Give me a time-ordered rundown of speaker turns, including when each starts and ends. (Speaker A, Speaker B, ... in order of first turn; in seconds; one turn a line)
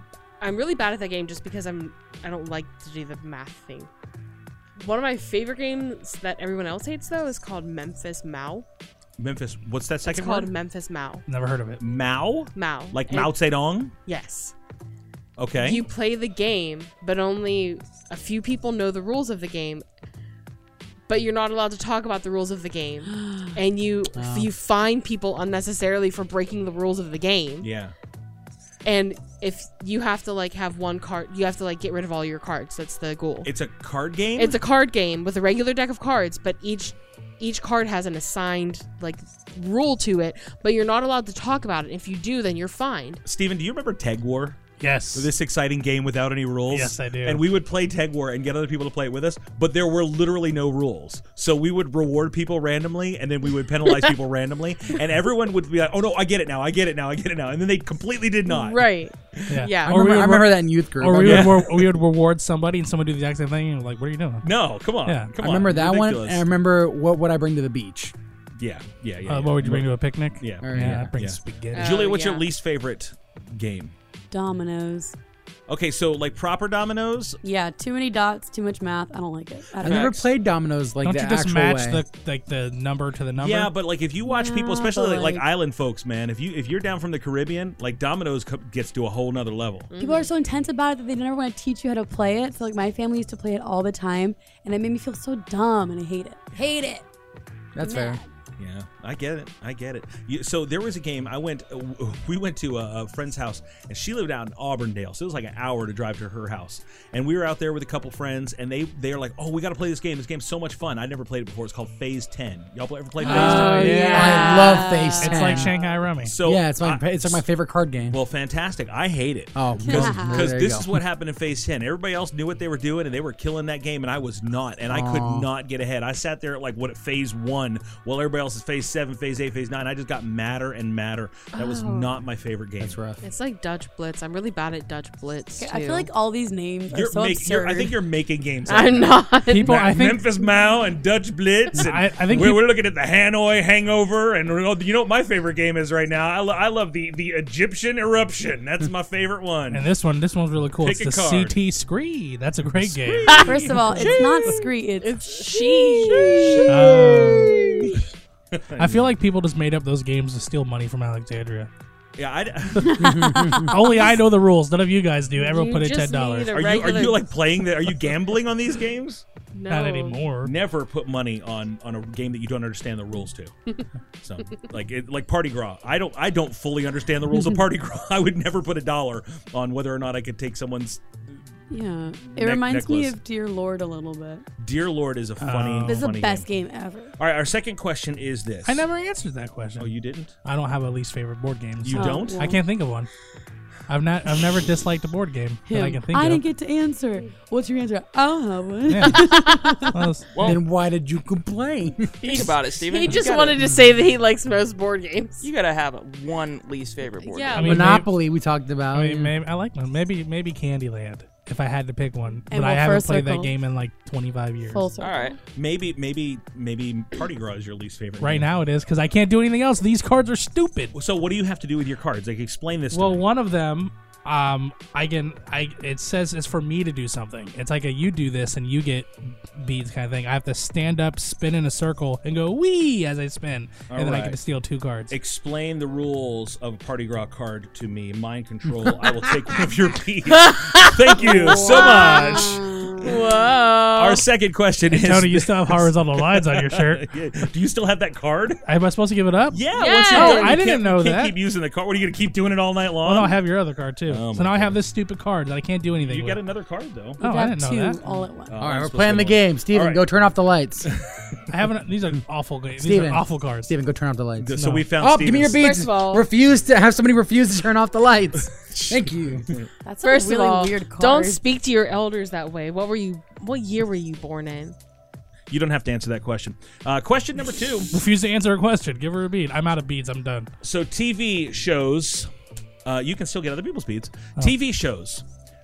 Speaker A: 0.4-3.9
Speaker A: 4.8-8.7
Speaker B: 9.2-10.5
Speaker A: 10.0-11.2
Speaker C: 11.3-11.8
Speaker B: 11.8-13.9
Speaker A: 12.5-13.4
Speaker A: 14.0-14.5
Speaker B: 15.4-15.8
Speaker A: 15.6-19.9
Speaker A: 21.1-27.7
Speaker D: 23.1-23.5
Speaker E: 24.1-24.5
Speaker B: 27.6-27.9
Speaker A: 28.8-33.5
Speaker B: 33.4-34.6
Speaker A: 34.4-43.2
Speaker B: 43.2-44.6
Speaker C: 44.8-45.3
Speaker B: 45.1-59.6
Speaker C: 46.7-47.4
Speaker A: 58.5-60.0
Speaker C: 59.5-64.5
Speaker E: 59.8-61.6
Speaker B: 61.1-62.0
Speaker B: 64.4-66.4
Speaker C: 65.0-65.3
Speaker E: 65.4-68.1
Speaker B: 68.6-69.9
Speaker C: 69.3-72.0
Speaker B: 70.4-73.9
Speaker E: 70.6-71.1
Speaker A: 71.7-72.5
Speaker D: 74.3-75.2
Speaker B: 75.7-77.4
Speaker D: 77.4-80.2
Speaker E: 79.8-82.0
Speaker F: 79.8-80.2
Speaker C: 81.0-83.7
Speaker B: 83.4-89.9
Speaker D: 84.2-85.5
Speaker A: 89.9-90.3
Speaker D: 90.0-97.0
Speaker E: 97.7-98.2
Speaker D: 97.8-98.2
Speaker B: 98.6-114.7
Speaker C: 113.2-114.4
Speaker D: 113.2-115.7
Speaker E: 113.3-115.7
Speaker C: 115.2-116.3
Speaker B: 116.2-117.4
Speaker E: 116.4-118.2
Speaker B: 118.1-133.0
Speaker E: 119.5-120.9
Speaker D: 119.8-120.4
Speaker E: 124.9-125.5
Speaker A: 131.5-132.1
Speaker E: 132.8-133.2
Speaker A: 133.2-136.1
Speaker D: 135.6-137.9
Speaker B: 136.9-149.9
Speaker A: 138.7-139.8
Speaker C: 139.5-140.2
Speaker C: 141.8-142.7
Speaker C: 149.7-153.5
Speaker B: 150.8-151.6
Speaker B: 152.7-154.2
Speaker A: 153.3-156.8
Speaker D: 153.4-155.1
Speaker B: 155.9-157.7
Speaker D: 156.0-156.3
Speaker C: 156.7-157.6
Speaker B: 158.5-159.1
Speaker C: 158.8-161.7
Speaker B: 162.2-163.0
Speaker D: 162.8-164.1
Speaker E: 163.0-163.8
Speaker C: 163.6-166.5
Speaker A: 165.3-167.3
Speaker B: 166.5-169.2
Speaker A: 169.5-170.2
Speaker C: 169.7-170.5
Speaker B: 170.4-173.5
Speaker B: 174.2-181.2
Speaker D: 181.7-184.4
Speaker B: 182.3-183.2
Speaker B: 184.6-186.4
Speaker C: 185.4-186.0
Speaker D: 185.8-187.1
Speaker B: 187.2-188.8
Speaker C: 188.7-189.9
Speaker B: 189.8-190.3
Speaker C: 190.4-193.1
Speaker B: 191.8-192.4
Speaker D: 191.9-192.6
Speaker C: 193.9-196.4
Speaker D: 195.7-199.9
Speaker C: 198.9-199.3
Speaker A: 199.2-199.8
Speaker C: 199.9-200.6
Speaker F: 200.3-200.6
Speaker E: 200.4-202.3
Speaker A: 202.2-205.5
Speaker F: 202.2-203.7
Speaker F: 205.4-207.6
Speaker A: 207.2-208.0
Speaker C: 207.5-208.1
Speaker E: 207.6-209.3
Speaker C: 208.9-214.9
Speaker D: 212.5-213.5
Speaker D: 214.7-215.3
Speaker F: 215.0-215.4
Speaker B: 215.5-218.5
Speaker C: 218.2-220.9
Speaker B: 220.9-223.2
Speaker C: 222.9-235.1
Speaker B: 233.9-234.4
Speaker B: 235.1-242.6
Speaker A: 240.4-244.2
Speaker D: 241.5-243.1
Speaker B: 243.9-248.6
Speaker C: 244.9-247.0
Speaker C: 248.7-251.3
Speaker B: 249.5-253.4
Speaker A: 249.7-250.6
Speaker C: 253.0-256.4
Speaker B: 254.1-254.8
Speaker B: 256.1-257.2
Speaker C: 257.2-258.2
Speaker D: 257.2-258.5
Speaker B: 258.5-260.0
Speaker E: 258.6-260.9
Speaker B: 260.9-261.4
Speaker C: 261.5-263.7
Speaker E: 262.8-269.5
Speaker B: 264.4-265.6
Speaker C: 264.5-264.9
Speaker A: 265.6-266.2
Speaker B: 268.7-269.7
Speaker A: 269.9-274.8
Speaker D: 270.0-271.4
Speaker B: 275.5-277.9
Speaker C: 277.9-280.5
Speaker B: 280.6-282.3
Speaker B: 282.8-285.2